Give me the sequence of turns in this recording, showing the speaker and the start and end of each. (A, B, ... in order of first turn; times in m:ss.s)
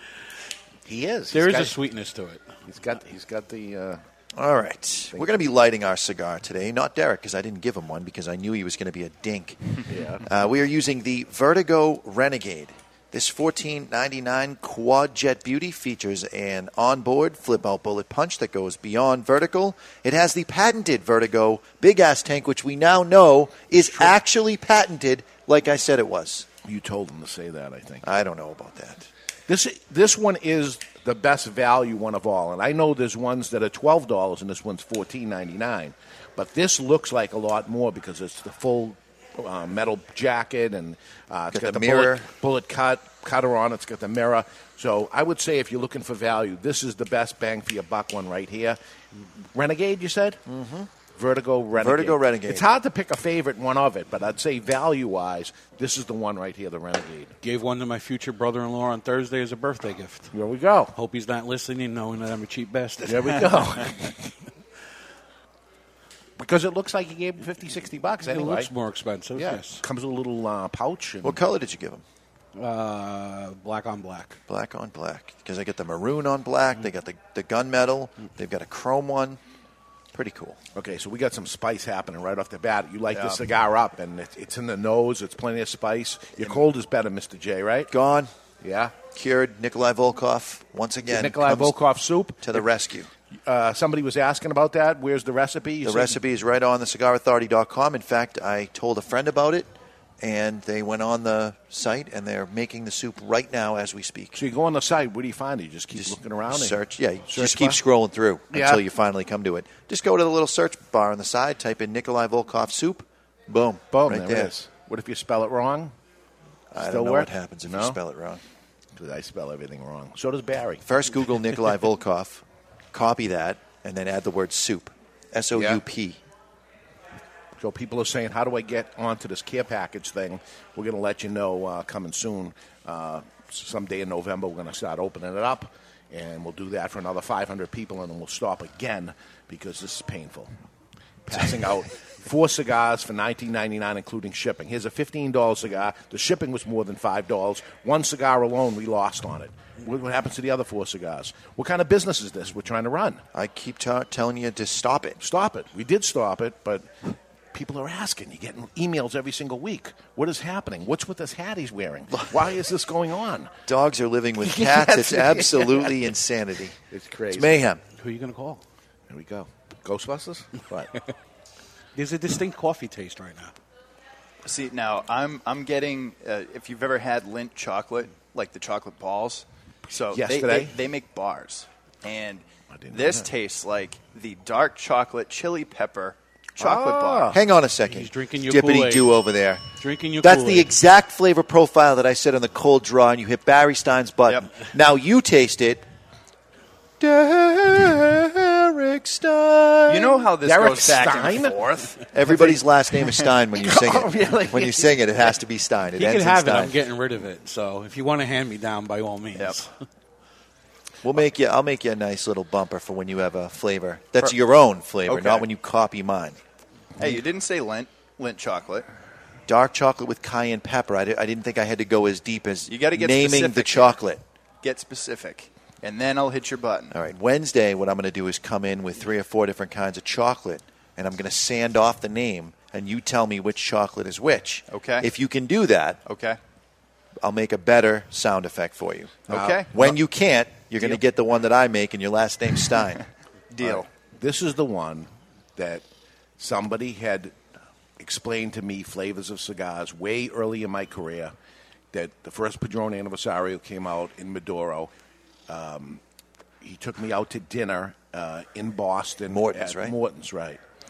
0:00.8-0:01.7 A
0:01.3-0:02.6 B
0:02.7-0:04.0 A
0:04.3-0:09.6 C
0:05.1-0:05.4 A
0:09.9-0:10.2 A
0:10.2-0:26.5 C
0:26.6-0:28.1 A
0:28.0-0:29.1 C
0:29.5-0:48.8 A
0:41.5-0:42.2 C
0:49.5-0:50.4 A
0:50.4-0:50.9 C
0:51.1-0:57.3 A
0:51.8-0:52.7 C
0:57.4-1:00.3 B
1:00.3-1:00.9 A
1:00.9-1:03.5 B
1:03.0-1:04.3 A
1:06.4-1:08.7 A
1:08.2-1:09.8 B
1:09.4-1:11.4 A
1:11.2-1:12.0 C
1:12.5-1:14.4 B
1:14.5-1:19.4 C
1:20.1-1:20.6 C
1:20.7-1:27.9 A
1:23.1-1:23.4 D
1:27.9-1:28.3 C
1:28.6-1:28.9 A
1:29.1-1:31.7 C
1:31.1-1:32.7 A
1:32.4-1:33.1 C
1:33.4-1:36.2 A
1:35.8-1:44.4 C
1:44.3-1:47.8 A
1:45.9-1:54.5 C
1:48.5-1:48.8 A
1:53.9-1:55.9 A
1:56.7-1:58.4 C
1:56.8-1:58.0 A
1:58.9-2:00.8 A
2:00.8-2:06.2 C
2:05.5-2:05.8 A
2:07.6-2:20.5 A
2:21.3-2:33.2 A
2:33.3-2:35.2 C
2:35.2-2:36.9 A
2:37.5-2:43.5 A
2:43.7-2:46.8 C
2:44.4-2:46.1 A
2:46.9-2:47.6 A
2:47.3-2:47.8 C
2:48.0-2:48.6 B
2:49.1-2:50.9 A
2:52.0-2:53.5 B
2:54.4-3:07.4 D
3:00.1-3:00.7 A
3:02.7-3:03.3 A
3:06.6-3:07.4 A
3:07.3-3:09.6 C
3:07.9-3:09.1 B
3:09.8-3:10.7 B
3:10.2-3:15.8 C
3:17.0-3:20.2 C
3:19.8-3:21.9 D
3:20.4-3:25.0 A
3:22.1-3:26.8 C
3:26.0-3:29.7 B
3:31.0-3:36.4 C
3:35.0-3:35.5 D
3:37.0-3:38.8 D
3:39.5-3:44.2 C
3:42.7-3:44.0 D
3:44.6-3:47.0 D
3:46.9-3:56.0 C
3:54.7-3:55.1 D
3:56.0-3:56.4 D
3:57.2-4:03.0 C
3:59.3-4:00.0 D
3:59.3-3:59.6 A
4:03.5-4:03.8 D
4:04.2-4:05.8 A
4:06.4-4:07.3 A
4:08.0-4:11.3 A
4:11.9-4:14.9 A
4:15.5-4:16.0 A
4:16.6-4:20.6 A
4:19.3-4:20.0 C